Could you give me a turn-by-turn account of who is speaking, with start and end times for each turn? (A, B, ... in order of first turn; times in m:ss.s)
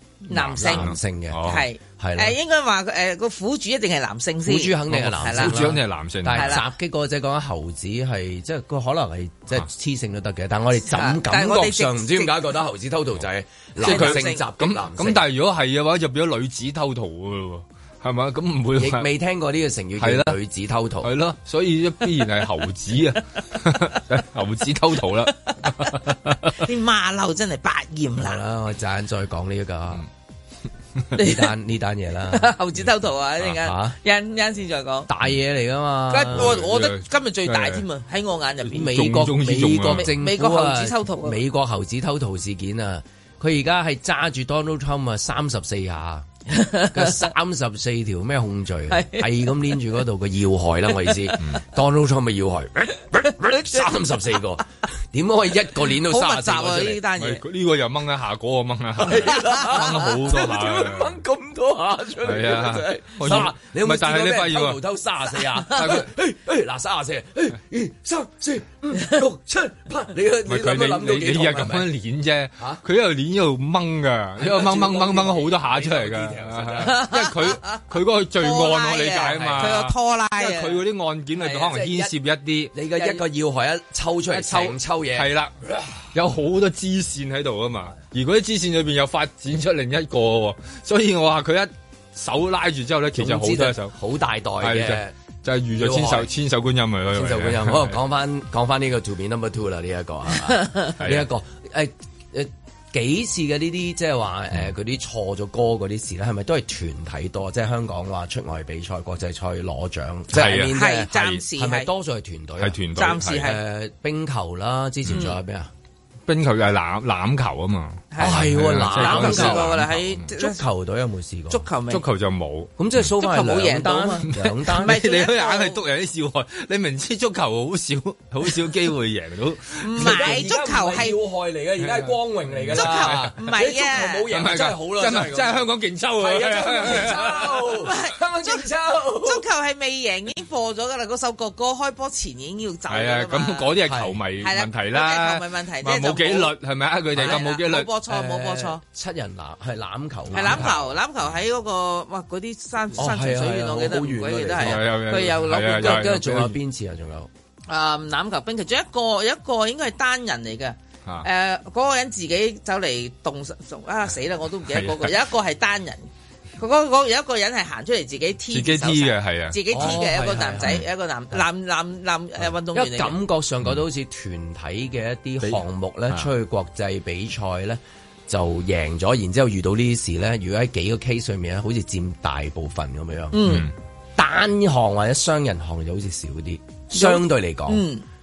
0:00.3-0:02.4 A
0:00.3-0:05.6 B
0:00.6-0:01.6 C
0:04.4-0:15.2 A
0:04.9-0:06.6 C
0:06.3-0:06.6 B
0:10.8-0:12.4 B
0:13.8-0:14.4 B
0:13.8-0:19.1 C
0:18.8-0:21.1 A
0:20.0-0:20.4 C
0:21.0-0:26.6 C
0:26.5-0:28.4 B
0:28.2-0:30.0 A
0:31.1-0:32.5 A
0:31.1-0:31.5 B
0:32.3-0:35.1 B
0:33.4-0:34.0 A
0:35.1-0:36.6 A
0:36.1-0:38.9 B
0:36.3-0:37.8 C
0:38.6-0:40.1 C
0:38.7-0:46.3 A
0:39.9-0:41.4 B
0:46.5-0:47.3 B
0:46.9-0:57.0 A
0:48.9-0:49.8 B
0:55.9-0:57.4 B
0:57.2-1:01.1 C
0:59.0-1:11.9 A
0:59.1-1:00.1 B
1:02.2-1:04.8 C
1:05.7-1:06.1 C
1:10.5-1:22.7 C
1:14.4-1:17.1 A
1:16.8-1:17.8 B
1:18.4-1:20.8 B
1:19.3-1:19.8 A
1:21.4-1:22.1 A
1:22.7-1:25.9 A
1:25.1-1:25.5 C
1:26.1-1:33.9 C
1:33.1-1:35.1 A
1:34.6-1:38.0 C
1:35.8-1:36.3 A
1:37.1-1:52.8 A
1:41.0-1:41.3 C
1:50.3-1:51.3 C
1:50.7-1:51.9 B
1:52.6-1:53.4 C
1:52.9-1:53.6 B
1:53.4-1:55.7 A
1:56.3-2:00.3 C
1:58.1-2:00.6 B
1:58.2-2:01.6 A
2:01.5-2:02.0 B
2:01.9-2:02.7 C
2:02.8-2:05.0 A
2:03.2-2:05.8 B
2:04.4-2:10.2 C
2:09.8-2:11.2 B
2:09.9-2:19.4 A
2:11.8-2:13.3 C
2:12.7-2:14.2 B
2:14.3-2:17.7 C
2:17.8-2:18.6 B
2:19.2-2:23.7 B
2:22.9-2:27.9 C
2:23.8-2:24.2 A
2:24.4-2:26.5 B
2:27.1-2:27.4 A
2:27.2-2:28.8 B
2:28.1-2:30.7 A
2:30.3-2:30.8 C
2:30.3-2:36.0 B
2:32.9-2:37.3 A
2:34.6-2:36.6 C
2:37.7-2:53.2 B
2:44.7-2:45.1 C
2:48.5-2:49.9 C
2:49.7-2:50.8 A
2:52.7-3:03.6 A
2:55.4-2:56.3 C
3:03.3-3:03.7 B
3:03.4-3:03.7 C
3:04.2-3:07.8 A
3:06.9-3:08.0 B